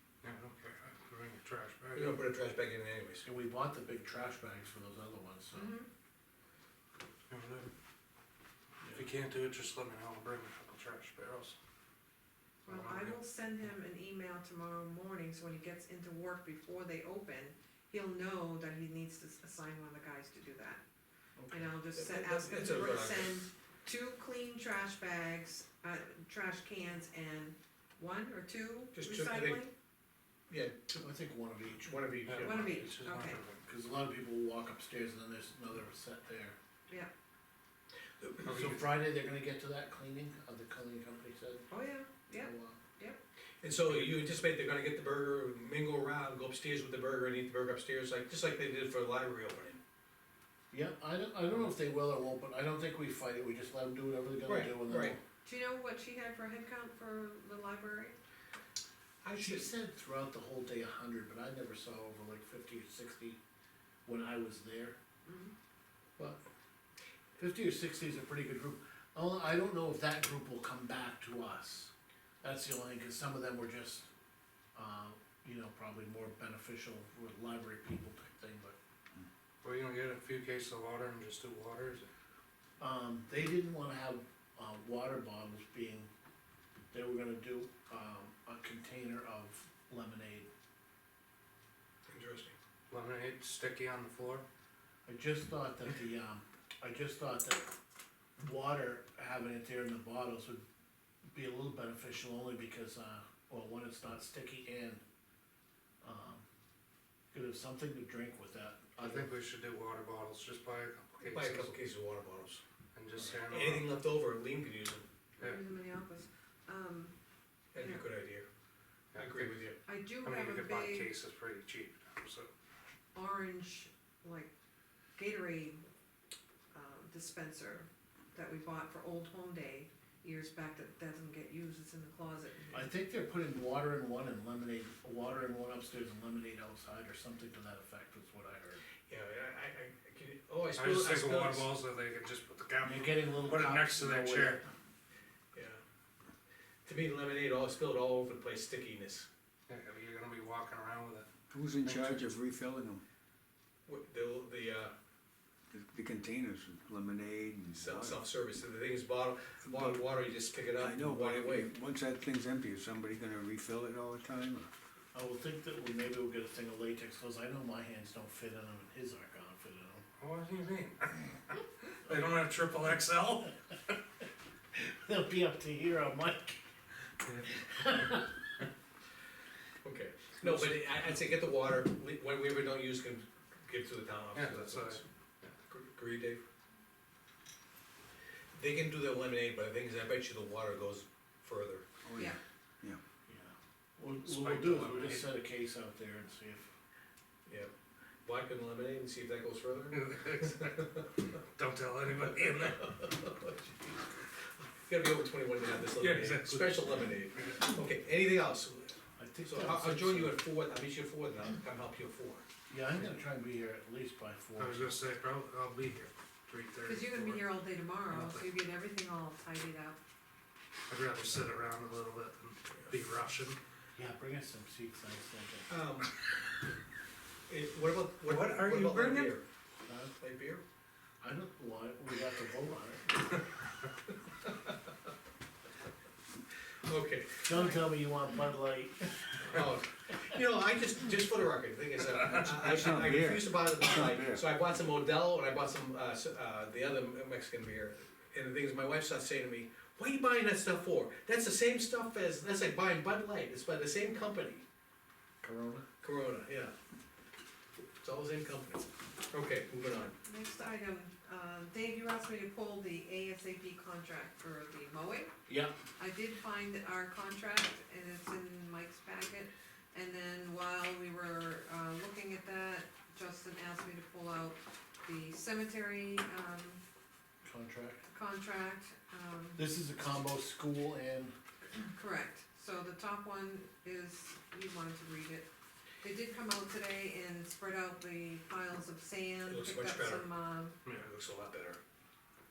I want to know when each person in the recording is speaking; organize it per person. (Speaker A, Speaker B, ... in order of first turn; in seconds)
Speaker A: 0.2-2.2, 7.3-7.7, 8.9-11.6, 12.7-13.2, 32.3-33.6, 38.5-38.8, 79.6-82.1, 92.9-94.5, 109.0-111.8, 113.0-113.9, 119.1-119.6, 120.2-122.5, 140.7-144.6, 149.7-151.3, 151.8-152.2, 170.2-173.9, 177.2-178.2, 184.3-185.6, 194.2-195.3, 199.9-203.0, 206.0-207.7, 214.6-217.6, 218.1-218.5, 220.9-223.6, 228.2-229.4
Speaker B: 1.9-3.2, 21.9-23.4, 28.9-29.6, 30.5-31.0, 31.8-32.7, 38.2-38.7, 43.6-49.8, 54.5-55.2, 59.2-59.7, 92.1-92.5, 111.3-112.6, 113.3-115.0, 117.7-118.5, 119.1-119.8, 139.1-141.7, 145.5-145.8, 146.8-149.3, 153.9-154.9, 157.7-161.7, 179.8-185.0, 185.7-186.4, 188.5-191.8, 197.5-197.7, 198.2-200.0, 200.8-201.1, 202.8-203.9, 204.6-212.4, 225.7-226.1, 227.5-229.4, 230.2-230.6, 236.8-237.4, 239.4-254.6, 256.0-256.7, 258.0-260.1, 289.4-290.3, 290.9-291.8
Speaker C: 3.2-5.8, 8.8-9.1, 21.4-21.7, 31.0-32.9, 33.7-36.5, 38.5-41.7, 42.4-42.8, 50.7-55.2, 59.3-63.4, 64.1-65.0, 67.4-74.1, 74.8-78.8, 82.8-86.1, 86.9-90.5, 95.1-97.6, 98.4-100.6, 101.3-105.0, 106.0-106.4, 107.3-109.3, 132.7-138.8, 142.8-144.7, 165.1-170.0, 174.7-176.6, 177.6-178.3, 193.3-196.7, 209.2-210.4, 212.7-215.0, 223.9-225.7, 229.8-230.1, 231.2-233.4, 237.4-239.3, 255.4-255.8, 265.5-265.7, 277.4-278.1, 279.6-281.3
Speaker D: 5.5-5.8, 12.7-20.8, 21.5-29.7, 32.4-33.4, 41.7-43.2, 55.5-58.2, 65.2-65.5, 115.4-117.1, 117.8-118.0, 119.8-121.1, 123.1-124.5, 125.2-125.8, 126.7-132.9, 216.8-220.0, 237.5-237.9, 260.2-265.3, 266.0-276.8, 278.1-279.6, 281.8-285.5, 286.0-290.8
Speaker E: 151.5-153.0, 155.7-158.2, 159.6-160.1, 160.7-164.7, 192.0-193.0, 242.4-244.5